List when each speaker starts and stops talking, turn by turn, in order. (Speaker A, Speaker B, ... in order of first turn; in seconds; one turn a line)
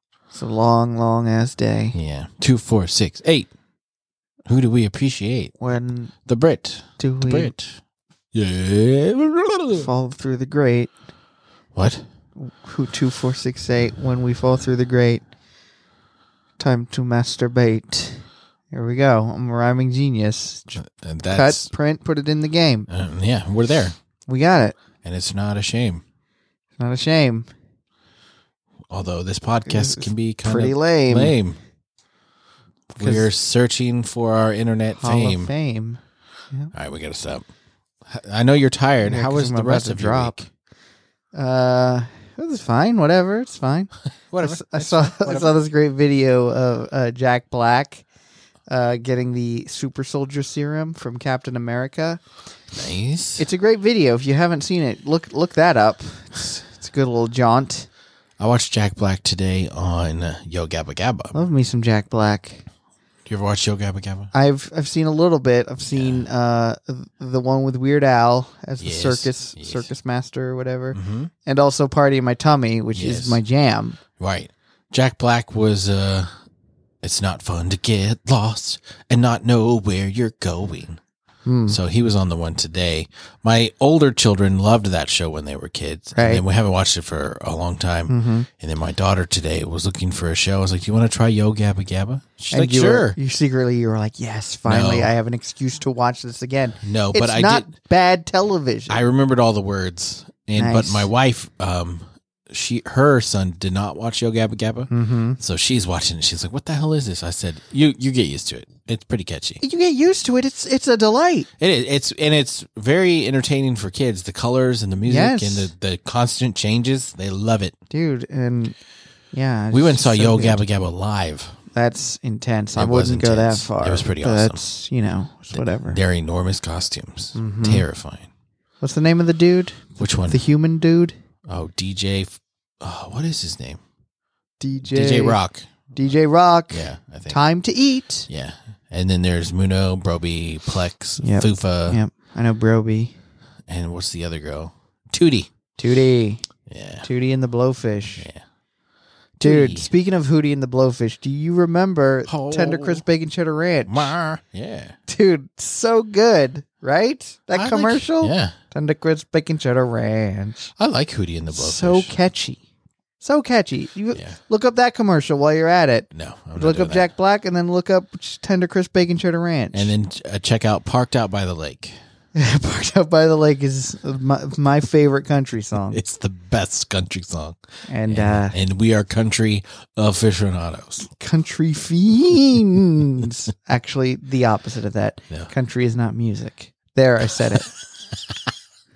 Speaker A: 0.3-1.9
Speaker B: 1.9-3.5
Speaker B: 4.5-5.5
Speaker A: 5.6-6.1
Speaker B: 6.2-7.8
Speaker A: 7.0-7.5
Speaker B: 8.3-9.9
Speaker A: 9.7-10.9
Speaker B: 11.7-12.0
Speaker A: 12.4-15.2
Speaker A: 16.6-22.9
Speaker B: 20.8-21.7
Speaker B: 22.9-23.9
Speaker A: 24.3-24.8
Speaker B: 25.0-26.0
Speaker A: 26.8-27.5
Speaker B: 28.9-31.6
Speaker A: 29.7-31.3
Speaker B: 32.9-35.5
Speaker A: 33.0-33.3
Speaker A: 35.0-36.0
Speaker B: 36.7-37.4
Speaker B: 38.0-40.5
Speaker A: 39.0-40.3
Speaker A: 41.3-43.9
Speaker B: 44.3-45.5
Speaker A: 44.4-48.0
Speaker A: 48.7-52.2
Speaker B: 52.7-53.4
Speaker A: 53.4-57.9
Speaker B: 58.4-61.4
Speaker A: 61.3-62.6
Speaker B: 63.2-64.3
Speaker A: 64.3-74.0
Speaker B: 65.9-66.2
Speaker B: 68.8-69.9
Speaker B: 70.9-71.3
Speaker B: 72.9-73.4
Speaker B: 74.2-76.3
Speaker B: 77.0-81.0
Speaker A: 81.5-81.8
Speaker B: 81.7-93.2
Speaker A: 86.1-86.4
Speaker A: 88.1-88.5
Speaker A: 92.5-99.0
Speaker B: 94.7-95.1
Speaker B: 96.8-97.7
Speaker B: 98.9-109.6
Speaker A: 100.6-101.1
Speaker A: 104.9-105.4
Speaker A: 109.6-111.5
Speaker B: 111.6-117.7
Speaker A: 115.0-115.7
Speaker A: 117.9-118.7
Speaker A: 119.3-120.6
Speaker B: 119.7-121.6
Speaker A: 121.7-126.0
Speaker B: 122.7-124.6
Speaker B: 125.5-128.3
Speaker A: 127.3-127.8
Speaker A: 128.8-131.1
Speaker B: 130.0-130.4
Speaker B: 131.5-133.8
Speaker A: 134.6-135.4
Speaker B: 134.9-135.7
Speaker A: 135.9-138.3
Speaker B: 136.7-137.4
Speaker B: 138.3-142.0
Speaker A: 141.2-143.1
Speaker B: 143.7-145.5
Speaker A: 145.8-146.4
Speaker B: 146.7-147.1
Speaker A: 147.0-148.3
Speaker B: 149.4-149.9
Speaker A: 149.4-154.1
Speaker B: 152.3-153.0
Speaker B: 153.8-155.0
Speaker A: 155.1-160.7
Speaker B: 157.5-158.5
Speaker B: 160.8-162.1
Speaker A: 161.5-162.6
Speaker A: 163.2-169.9
Speaker B: 166.1-167.1
Speaker B: 169.7-171.9
Speaker A: 172.3-176.0
Speaker B: 175.9-181.1
Speaker A: 177.9-178.6
Speaker A: 181.1-187.7
Speaker B: 188.1-188.5